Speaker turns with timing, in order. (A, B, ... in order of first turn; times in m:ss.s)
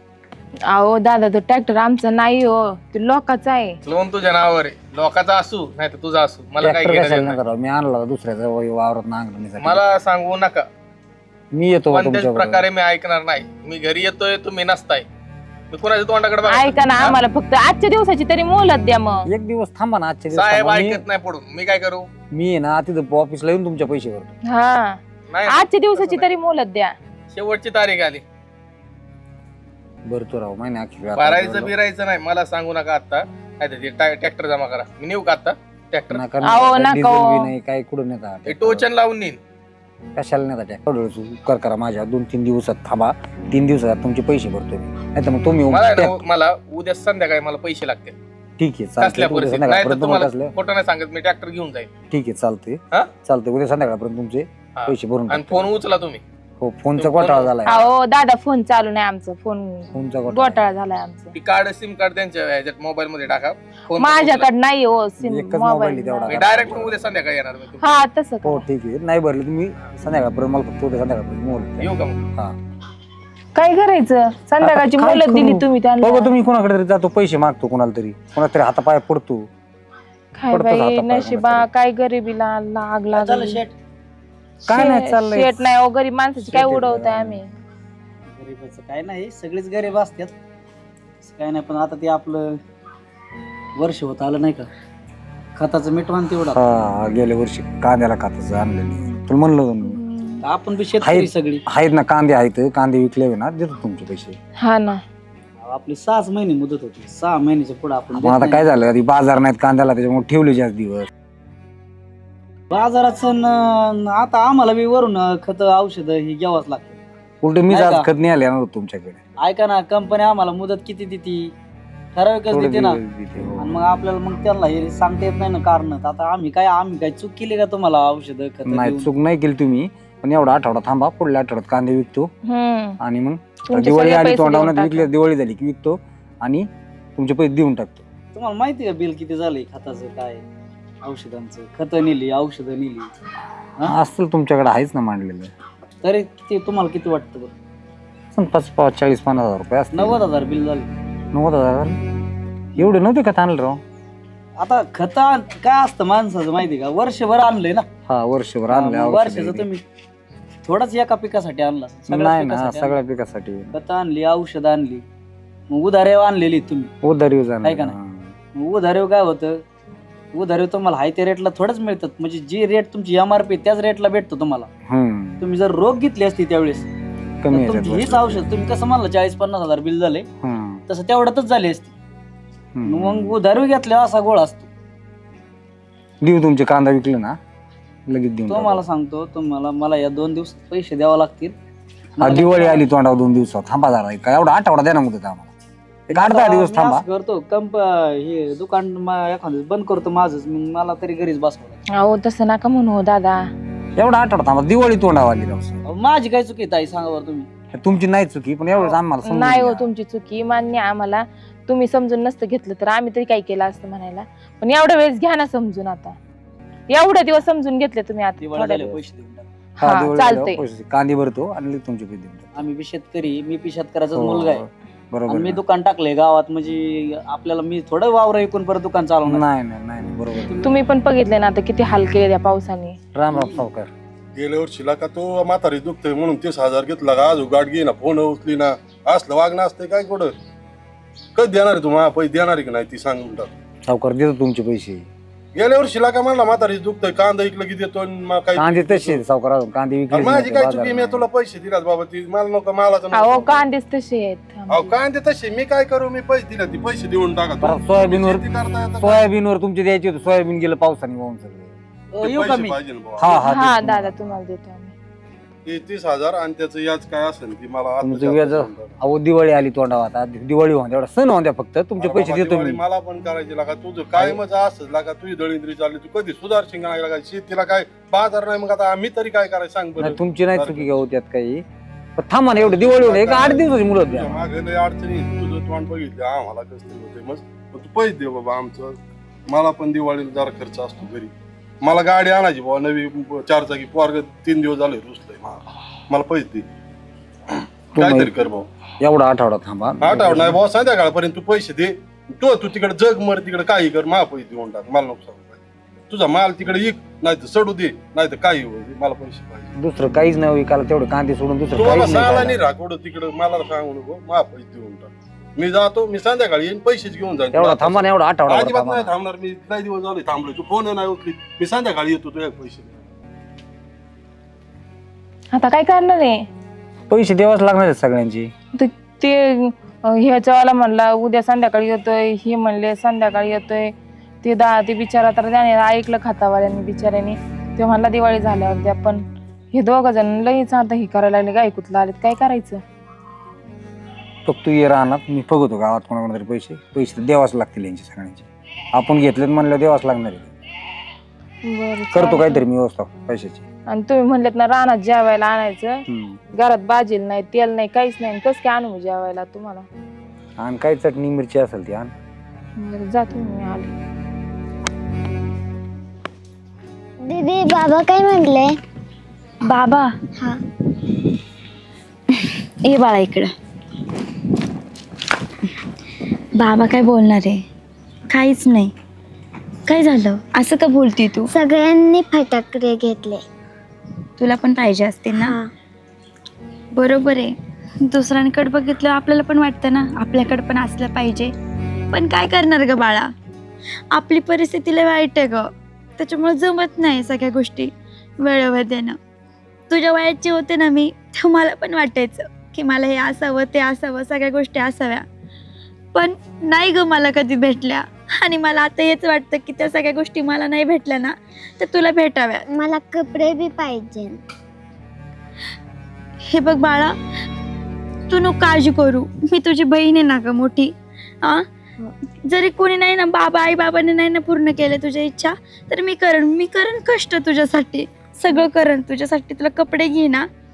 0:00.7-0:03.8 A
0:03.8-0:07.4 B
0:06.6-0:09.8 C
0:09.6-0:10.6 B
0:11.5-0:12.6 C
0:11.9-0:15.0 B
0:15.7-0:17.2 B
0:16.5-0:19.2 A
0:19.3-0:21.0 C
0:20.3-0:22.1 B
0:22.3-0:24.3 C
0:24.5-0:26.9 A
0:25.3-0:26.2 B
0:27.3-0:28.2 B
0:30.0-0:31.7 C
0:31.2-0:36.2 B
0:36.1-0:38.8 C
0:36.4-0:37.5 A
0:38.5-0:39.4 B
0:40.1-0:46.2 C
0:45.7-0:48.2 B
0:48.6-0:50.5 C
0:49.0-0:51.9 B
0:52.1-0:55.7 C
0:54.8-0:56.2 B
0:56.6-0:57.8 C
0:57.0-0:57.9 B
0:57.6-1:01.3 A
0:59.9-1:00.6 C
1:01.3-1:04.5 B
1:04.0-1:06.4 A
1:05.2-1:07.0 C
1:06.3-1:07.9 B
1:07.8-1:08.6 A
1:08.4-1:12.6 C
1:11.8-1:12.2 B
1:13.6-1:16.3 A
1:14.6-1:19.5 C
1:20.3-1:23.6 A
1:20.5-1:21.6 C
1:23.1-1:23.7 D
1:24.6-1:25.6 C
1:24.7-1:27.4 A
1:26.4-1:27.4 C
1:28.3-1:30.3 D
1:31.2-1:32.6 D
1:33.8-1:34.7 D
1:35.6-1:36.6 D
1:36.5-1:40.0 C
1:40.4-1:41.6 D
1:41.0-1:44.4 C
1:44.6-1:45.0 A
1:45.6-1:48.6 D
1:48.1-1:51.1 C
1:52.7-1:57.0 D
1:57.4-1:59.2 C
1:57.7-1:58.1 D
1:59.4-2:01.5 D
2:02.1-2:03.0 D
2:02.5-2:03.8 C
2:03.6-2:09.1 D
2:08.6-2:12.3 C
2:12.5-2:13.0 A
2:13.0-2:18.0 C
2:13.7-2:15.1 A
2:18.3-2:20.4 D
2:21.0-2:23.1 D
2:23.8-2:25.5 C
2:26.0-2:27.5 D
2:28.3-2:30.2 C
2:29.9-2:30.9 D
2:31.3-2:32.0 C
2:32.8-2:33.8 C
2:34.6-2:37.9 D
2:38.1-2:39.7 C
2:38.7-2:39.8 D
2:40.6-2:43.0 D
2:42.1-2:43.7 C
2:43.7-2:45.0 D
2:45.7-2:46.9 D
2:47.0-2:48.3 C
2:47.6-2:47.9 D
2:48.5-2:49.6 D
2:50.3-2:54.7 D
2:54.8-2:55.4 C
2:55.4-2:56.9 D
2:57.4-2:58.4 C
2:57.5-3:00.3 D
3:00.4-3:00.8 C
3:00.9-3:01.9 D
3:02.7-3:03.4 C
3:02.8-3:04.7 D
3:06.2-3:07.4 C
3:08.1-3:08.8 C
3:08.5-3:11.6 D
3:12.2-3:12.8 D
3:12.2-3:15.5 C
3:16.1-3:17.0 C
3:16.1-3:21.8 D
3:21.9-3:23.4 A
3:24.0-3:25.8 C
3:25.8-3:27.5 D
3:27.7-3:29.9 C
3:29.2-3:36.2 A
3:36.9-3:39.0 A
3:38.4-3:39.5 D
3:39.8-3:40.6 A
3:39.8-3:42.4 C
3:42.5-3:44.6 D
3:44.1-3:45.6 C
3:45.3-3:49.4 D
3:49.2-3:50.5 C
3:50.4-3:50.7 D
3:50.6-3:53.0 A
3:53.1-3:53.9 C
3:53.3-3:53.6 D
3:54.4-4:00.3 E
4:01.3-4:03.5 E
4:03.9-4:05.1 C
4:05.5-4:09.2 E
4:08.6-4:11.2 C
4:10.1-4:13.6 E
4:13.1-4:14.9 A
4:14.7-4:19.2 E
4:17.6-4:18.4 C
4:19.0-4:21.8 C
4:22.1-4:22.8 D
4:22.2-4:23.3 E
4:23.2-4:24.1 C
4:23.2-4:24.9 A
4:25.6-4:28.9 E
4:28.0-4:32.8 C
4:32.0-4:40.9 E
4:40.0-4:41.6 C
4:42.2-4:44.4 C
4:42.6-4:49.0 E
4:49.5-4:51.3 E
4:51.8-4:56.6 E
4:57.9-4:58.3 C
4:57.9-4:58.6 E
4:59.0-5:00.6 C
5:00.0-5:09.7 E
5:09.7-5:12.6 C
5:11.7-5:23.0 E
5:17.5-5:19.1 C
5:25.5-5:26.4 A
5:27.1-5:28.5 C
5:28.8-5:42.8 A
5:44.4-5:50.5 C
5:51.6-5:52.6 A
5:52.1-5:53.6 C
5:53.9-5:56.0 A
5:56.1-5:56.4 C
5:56.5-5:59.9 A
6:00.6-6:02.1 C
6:02.8-6:03.9 A
6:07.2-6:08.7 F
6:09.7-6:10.1 G
6:12.3-6:13.5 G
6:16.6-6:17.6 G
6:18.3-6:18.9 G
6:19.9-6:21.5 G
6:21.5-6:23.4 F
6:24.4-6:25.6 G
6:25.4-6:25.7 F
6:26.9-6:31.5 G
6:32.1-6:33.3 G
6:34.1-6:39.2 G
6:39.9-6:45.2 G
6:46.1-6:52.6 G
6:52.7-6:54.4 F
6:56.5-6:57.1 G
6:58.3-7:01.6 G
7:02.4-7:10.5 G